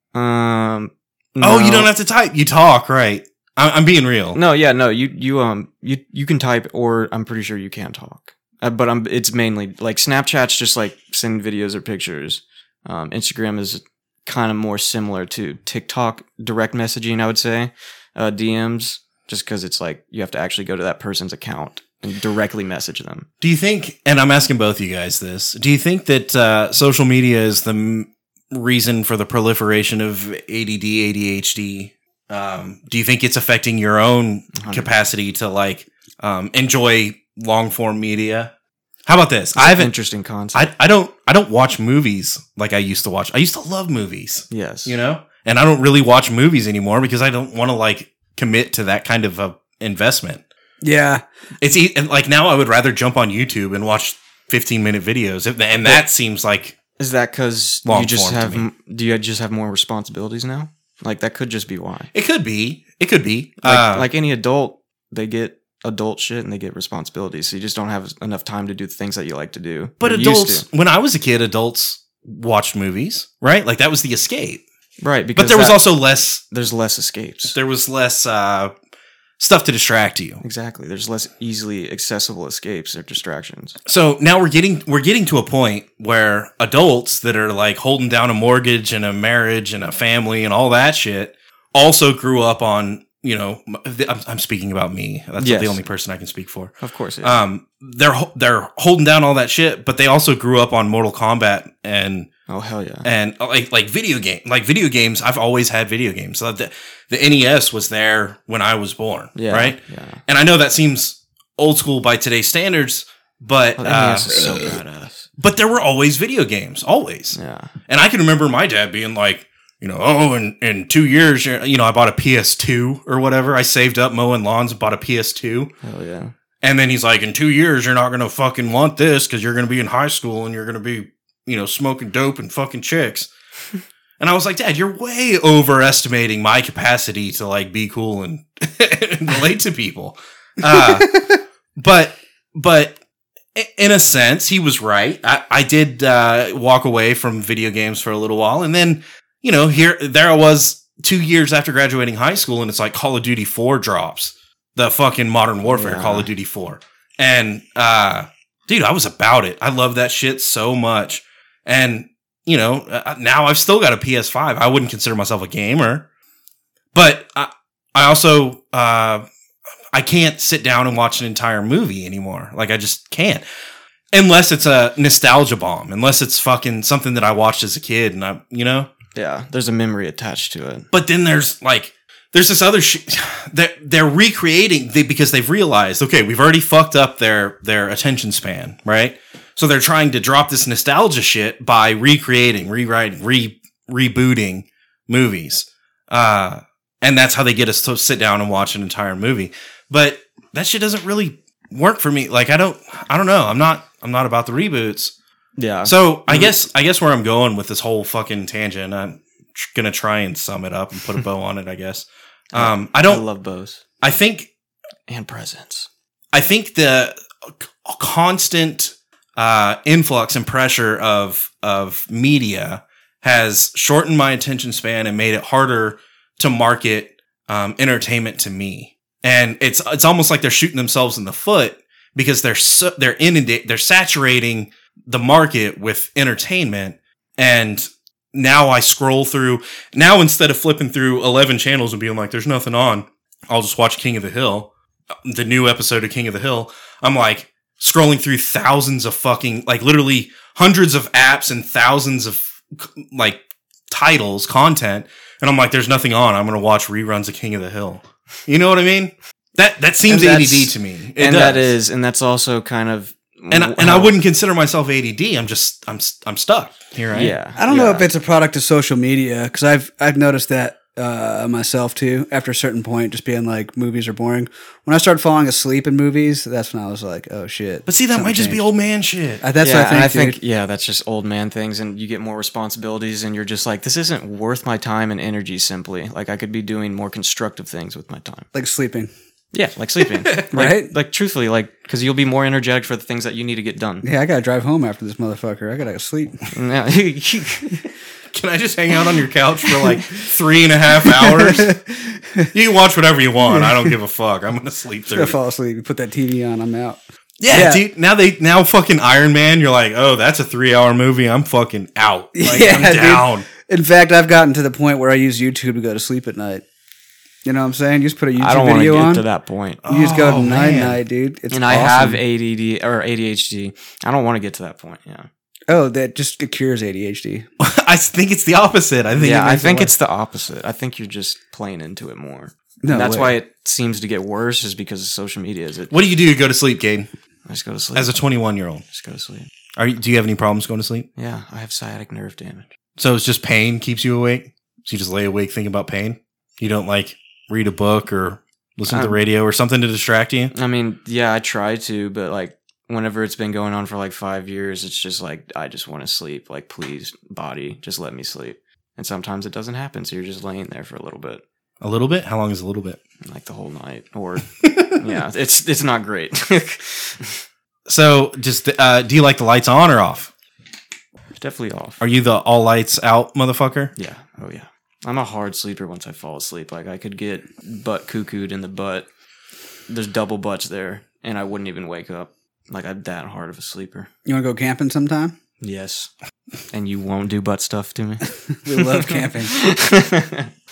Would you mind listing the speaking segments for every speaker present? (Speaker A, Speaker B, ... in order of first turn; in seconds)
Speaker A: 0.1-1.9, 4.3-23.3, 34.6-34.9, 39.6-40.7, 44.5-45.0, 57.0-62.1, 63.6-70.7, 75.0-75.8, 76.5-77.5, 80.4-83.8, 95.4-95.8, 96.8-97.4, 102.5-103.1, 109.3-110.2, 113.8-115.3, 117.3-117.7, 125.8-126.3, 155.7-156.3, 179.2-180.9, 205.6-206.6, 212.5-213.8, 215.1-215.9, 260.1-264.1, 267.1-268.1, 279.6-288.5, 289.5-294.1, 296.5-297.9, 318.4-319.8, 321.5-325.3, 329.2-335.9, 337.5-338.1, 338.9-339.5, 341.2-342.7, 348.9-349.2, 350.5-361.4, 363.2-367.4, 371.4-372.0, 374.0-379.1, 379.9-384.1, 385.6-386.1, 386.7-390.5
Speaker B: 1.4-4.4, 23.4-38.5, 39.1-39.9, 40.5-50.4, 51.6-56.8, 57.9-58.6, 62.1-64.1, 70.0-74.6, 75.3-76.4, 77.5-78.7, 79.4-80.4, 83.9-102.3, 103.0-114.6, 115.4-125.7, 126.6-133.3, 134.2-141.2, 141.8-143.0, 143.6-166.1, 166.9-169.2, 169.9-173.4, 174.1-178.9, 180.9-205.1, 205.8-213.2, 214.0-214.5, 216.3-244.7, 245.2-261.8, 263.5-267.4, 277.9-279.4, 290.2-290.5, 298.3-301.8, 302.5-305.4, 307.4-313.5, 319.8-321.0, 327.6-329.9, 335.9-337.1, 337.9-338.9, 339.8-341.1, 343.0-350.5, 361.8-363.0, 364.6-365.1, 367.9-370.3, 372.0-373.9
Speaker C: 50.8-51.2, 141.0-141.3, 267.6-278.6, 279.4-280.4, 288.5-289.1, 290.5-290.9, 294.0-296.4, 301.1-302.5, 303.5-303.9, 305.1-307.0, 307.5-307.8, 312.4-316.6, 317.4-319.2, 319.9-322.2, 325.7-327.5, 332.8-333.4, 384.3-385.4, 388.5-389.7